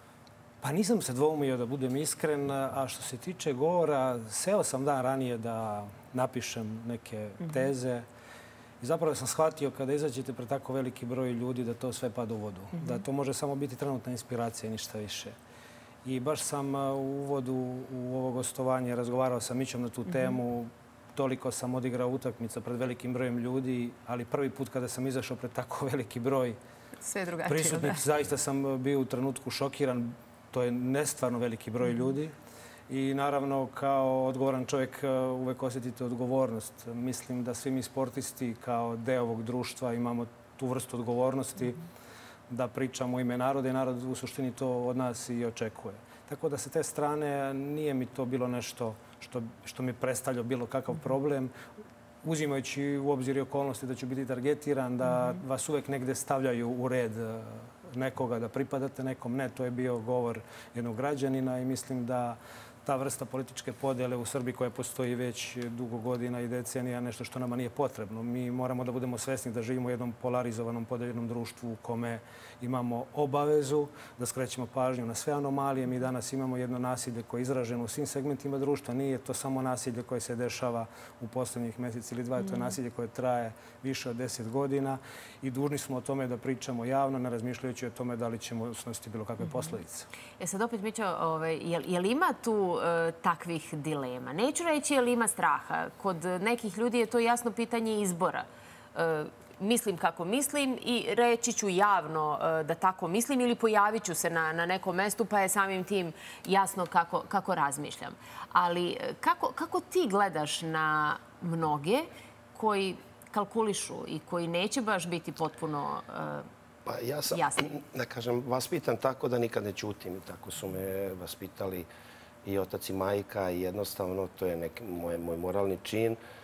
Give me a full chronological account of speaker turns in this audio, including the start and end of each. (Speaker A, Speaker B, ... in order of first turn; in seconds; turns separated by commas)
Speaker A: 0.6-8.1, Speaker A: 8.8-15.3, Speaker A: 16.0-26.6, Speaker B: 27.0-28.0, Speaker A: 27.4-32.3, Speaker A: 32.9-41.8, Speaker A: 42.5-51.5, Speaker A: 52.2-90.1, Speaker B: 82.5-82.7, Speaker B: 90.4-116.5, Speaker C: 116.8-121.9, Speaker B: 117.3-117.7, Speaker C: 122.4-126.2